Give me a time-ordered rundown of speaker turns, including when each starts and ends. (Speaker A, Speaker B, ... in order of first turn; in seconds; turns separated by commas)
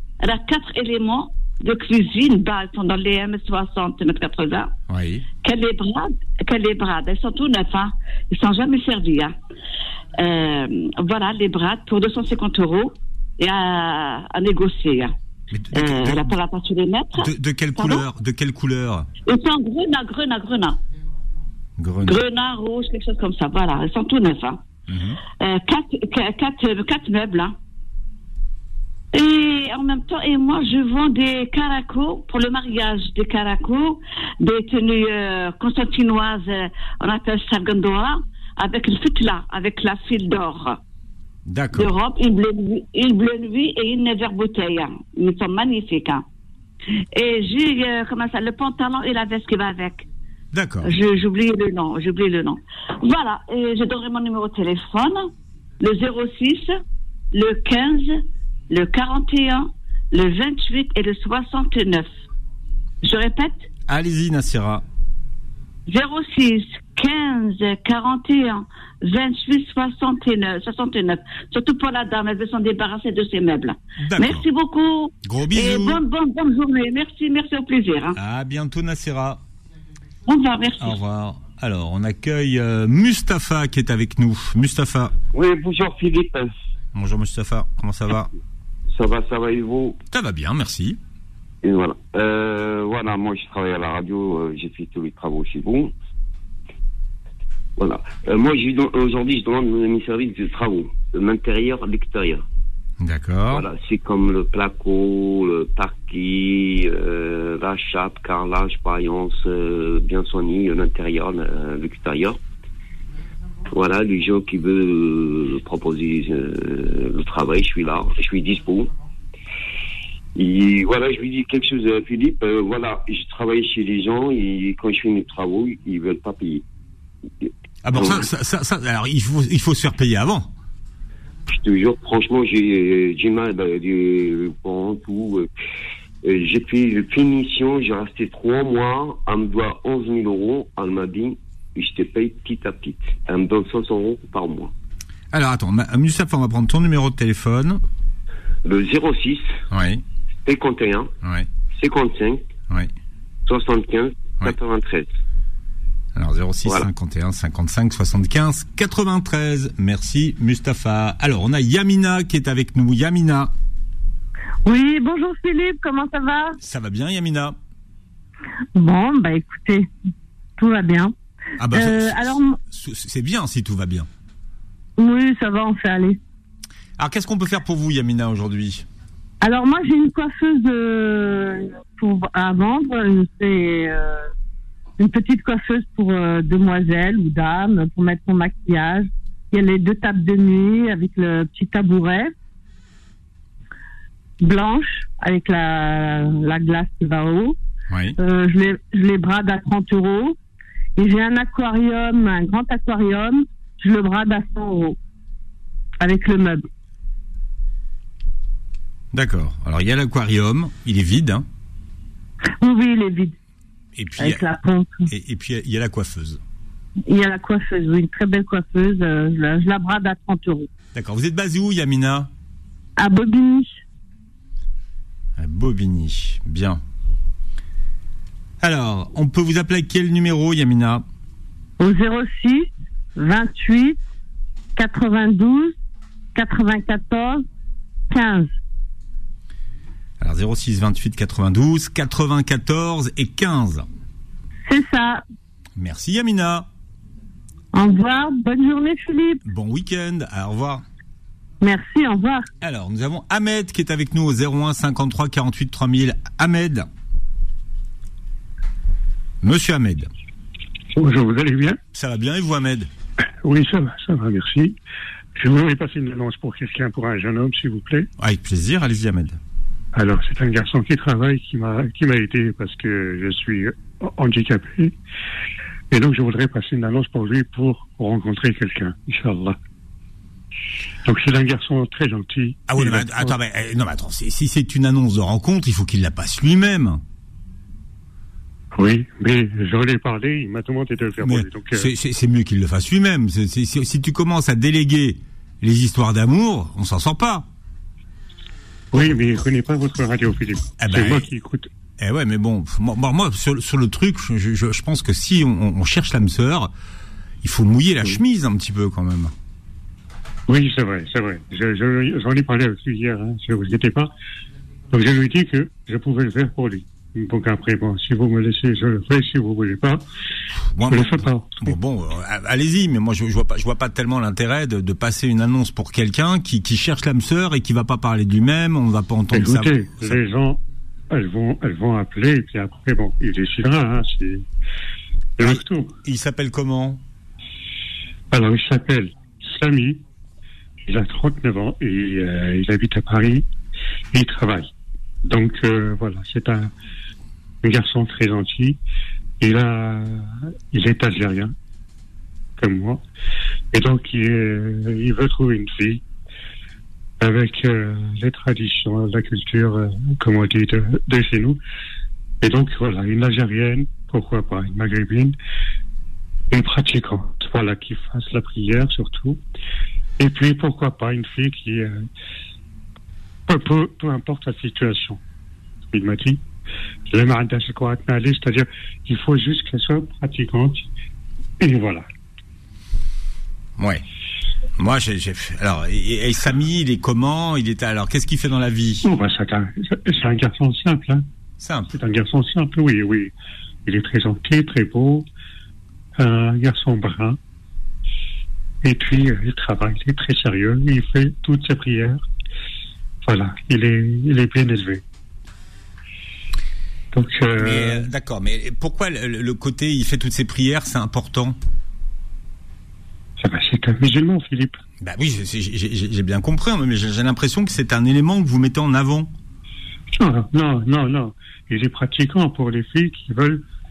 Speaker A: 0.2-4.7, Speaker B: 4.9-5.3, Speaker A: 5.4-9.3, Speaker A: 10.2-15.2, Speaker B: 15.5-16.4, Speaker A: 15.7-18.1, Speaker B: 17.2-19.1, Speaker A: 19.2-20.8, Speaker B: 21.8-22.2, Speaker A: 22.0-24.6, Speaker B: 24.9-25.2, Speaker A: 25.3-27.6, Speaker A: 29.1-40.8, Speaker B: 41.5-41.9, Speaker A: 41.7-46.2, Speaker A: 47.1-50.1, Speaker B: 50.5-51.0, Speaker A: 50.8-56.8, Speaker A: 57.3-62.1, Speaker A: 63.0-63.7, Speaker B: 63.9-64.8, Speaker A: 65.9-78.2, Speaker B: 74.0-74.5, Speaker B: 75.2-76.0, Speaker B: 78.2-79.4, Speaker A: 80.2-81.0, Speaker B: 80.8-85.2, Speaker C: 85.3-86.5, Speaker B: 87.0-88.3, Speaker C: 88.9-90.0, Speaker B: 90.1-91.0, Speaker C: 91.6-95.9, Speaker C: 97.8-102.4, Speaker B: 103.0-103.7, Speaker C: 103.5-112.4, Speaker C: 113.7-118.9, Speaker C: 120.3-126.6, Speaker C: 127.4-128.3, Speaker B: 127.8-130.5, Speaker C: 131.5-135.5, Speaker C: 136.2-144.7, Speaker B: 145.3-147.8, Speaker C: 148.6-149.6, Speaker B: 149.7-150.0, Speaker C: 150.4-151.1, Speaker C: 151.7-152.4, Speaker C: 153.5-155.1, Speaker B: 156.2-163.5, Speaker D: 164.7-166.6, Speaker B: 166.6-167.6, Speaker D: 168.8-169.9, Speaker D: 170.6-171.1, Speaker B: 171.6-174.1, Speaker D: 171.7-172.6, Speaker D: 175.0-176.2, Speaker B: 177.0-178.8, Speaker D: 179.4-184.3, Speaker D: 185.0-192.3, Speaker D: 194.4-197.6, Speaker B: 197.9-198.2, Speaker D: 198.2-200.4, Speaker D: 201.0-205.0, Speaker D: 206.0-206.7, Speaker B: 209.1-211.5, Speaker D: 212.6-213.3, Speaker B: 214.0-214.4, Speaker D: 214.2-215.1, Speaker B: 215.1-216.4, Speaker D: 217.1-220.7, Speaker B: 220.9-222.3, Speaker D: 223.0-223.8, Speaker B: 225.4-226.8, Speaker B: 228.6-231.1, Speaker D: 231.8-234.0, Speaker D: 234.8-235.8, Speaker D: 236.3-237.4, Speaker D: 238.1-238.5, Speaker B: 240.2-243.9, Speaker D: 244.7-245.2, Speaker B: 245.8-246.7, Speaker D: 247.7-249.4, Speaker B: 249.4-250.8, Speaker D: 251.6-252.5, Speaker B: 252.6-256.9, Speaker B: 259.4-260.1, Speaker E: 260.9-261.8, Speaker B: 261.9-262.9, Speaker E: 263.4-264.8, Speaker E: 265.4-268.1, Speaker B: 268.2-269.4, Speaker E: 269.9-275.0, Speaker E: 275.9-279.6, Speaker E: 281.1-283.4, Speaker B: 282.7-287.0, Speaker E: 288.8-291.9, Speaker B: 291.2-297.5, Speaker E: 298.9-301.7, Speaker B: 300.8-301.2, Speaker B: 302.0-306.7, Speaker B: 307.4-309.3, Speaker E: 310.5-314.1, Speaker E: 314.9-320.1, Speaker B: 320.7-330.2, Speaker E: 320.9-321.8, Speaker E: 329.3-334.4, Speaker E: 335.4-335.9, Speaker B: 335.4-337.0, Speaker E: 338.3-340.0, Speaker E: 340.9-343.5, Speaker E: 344.1-344.7, Speaker E: 345.2-346.7, Speaker E: 347.6-348.8, Speaker E: 349.4-351.5, Speaker E: 352.6-353.0, Speaker E: 353.7-356.0, Speaker E: 357.2-361.6, Speaker E: 362.4-365.4, Speaker E: 366.5-369.4, Speaker E: 370.2-372.1, Speaker E: 373.5-375.2, Speaker E: 375.9-376.4, Speaker E: 377.1-380.9, Speaker E: 381.6-382.1, Speaker B: 383.8-384.0, Speaker B: 384.8-389.0, Speaker E: 389.0-391.2, Speaker B: 391.6-391.9, Speaker E: 391.9-393.3, Speaker E: 393.9-395.3, Speaker E: 396.2-397.4, Speaker E: 398.8-402.3, Speaker E: 403.2-405.0, Speaker E: 407.1-408.1, Speaker B: 407.6-411.6, Speaker E: 413.4-414.8, Speaker B: 415.0-419.3, Speaker E: 420.1-423.6